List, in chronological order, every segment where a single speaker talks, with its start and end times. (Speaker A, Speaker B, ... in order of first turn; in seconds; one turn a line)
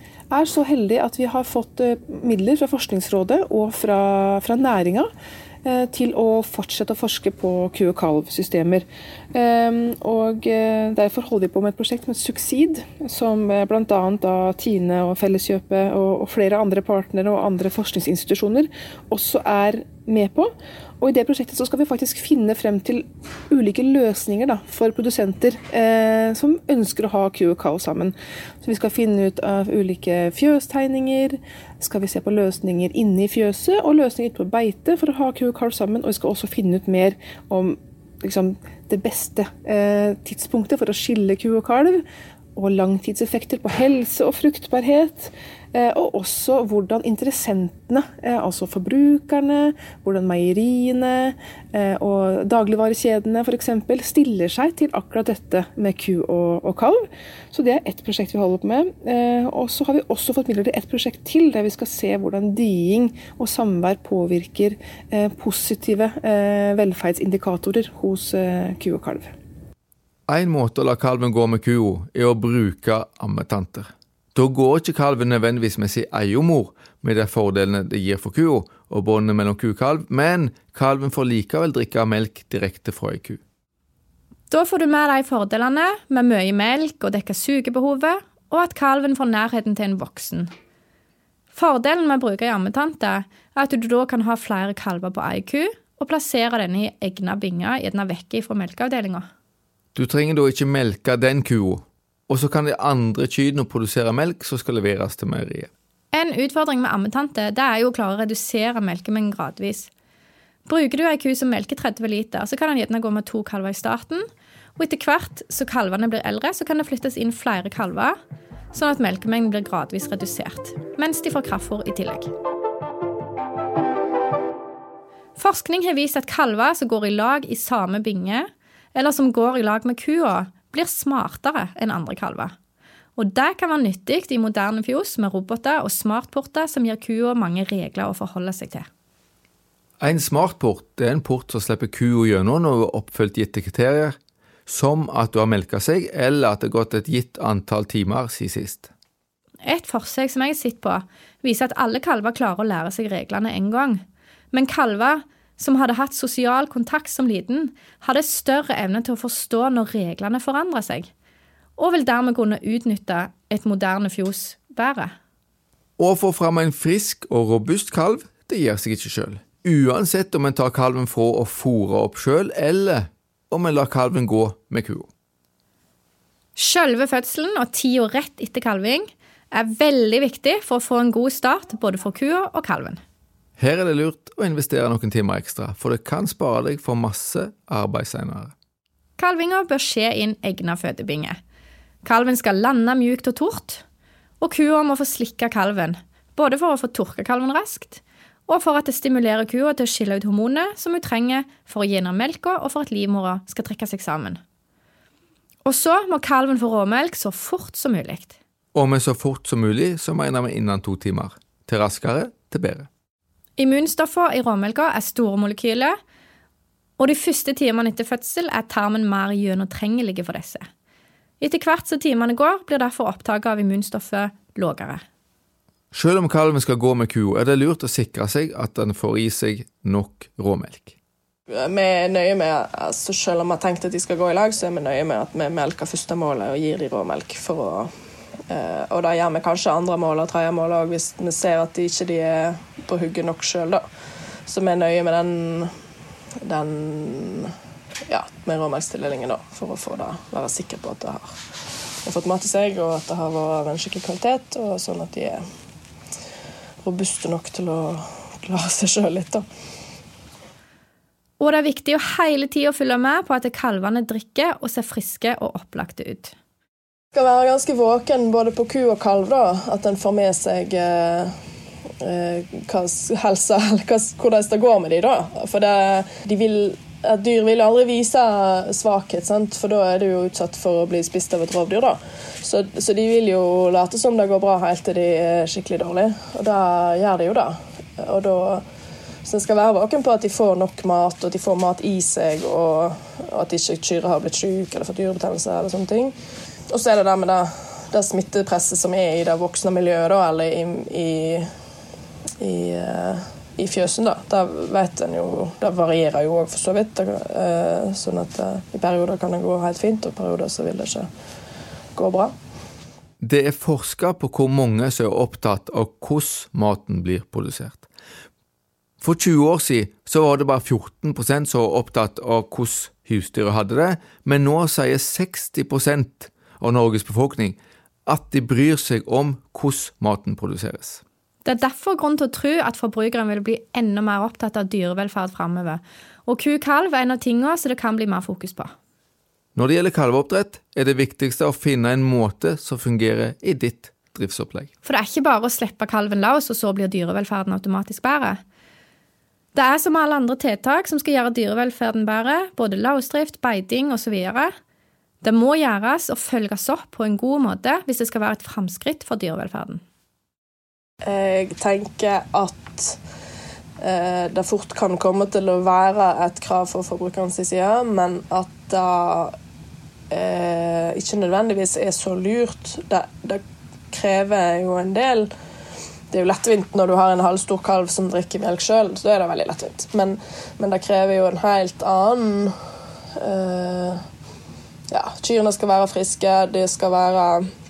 Speaker A: 0.3-5.1
Speaker A: 5.6-42.0
Speaker A: 42.5-69.3
Speaker B: 70.3-83.4
Speaker C: 84.5-90.5
Speaker C: 91.5-99.3
Speaker B: 100.0-105.7
Speaker C: 106.1-109.9
Speaker C: 110.7-114.3
Speaker C: 114.8-118.2
Speaker C: 118.7-122.3
Speaker C: 125.4-132.5
Speaker C: 133.2-138.9
Speaker B: 140.0-144.2
Speaker B: 144.7-148.9
Speaker C: 149.6-161.1
Speaker C: 161.8-165.1
Speaker B: 166.0-175.1
Speaker C: 176.6-183.0
Speaker B: 183.6-188.5
Speaker C: 189.2-191.4
Speaker C: 192.0-193.8
Speaker C: 194.4-204.4
Speaker C: 205.7-208.3
Speaker B: 208.7-212.9
Speaker C: 213.6-216.0
Speaker C: 217.0-220.7
Speaker C: 221.4-225.0
Speaker B: 225.9-231.0
Speaker D: 231.5-237.9
Speaker D: 238.5-243.8
Speaker D: 244.5-245.7
Speaker D: 246.4-247.5
Speaker D: 248.1-251.4
Speaker D: 252.0-255.4
Speaker D: 256.8-259.4
Speaker C: 261.4-266.3
Speaker D: 267.1-271.4
Speaker D: 272.0-288.6
Speaker D: 289.2-296.2
Speaker D: 296.7-301.5
Speaker D: 302.4-311.1
Speaker D: 311.9-312.3
Speaker B: 313.2-317.9
Speaker B: 319.0-331.0
Speaker C: 331.4-338.7
Speaker B: 339.6-344.7
Speaker C: 344.9-348.4
Speaker C: 349.5-354.5
Speaker C: 355.2-359.8
Speaker D: 361.0-363.0
Speaker D: 363.8-369.4
Speaker D: 370.1-375.3
Speaker D: 376.1-382.6
Speaker D: 383.2-384.0
Speaker D: 384.9-387.5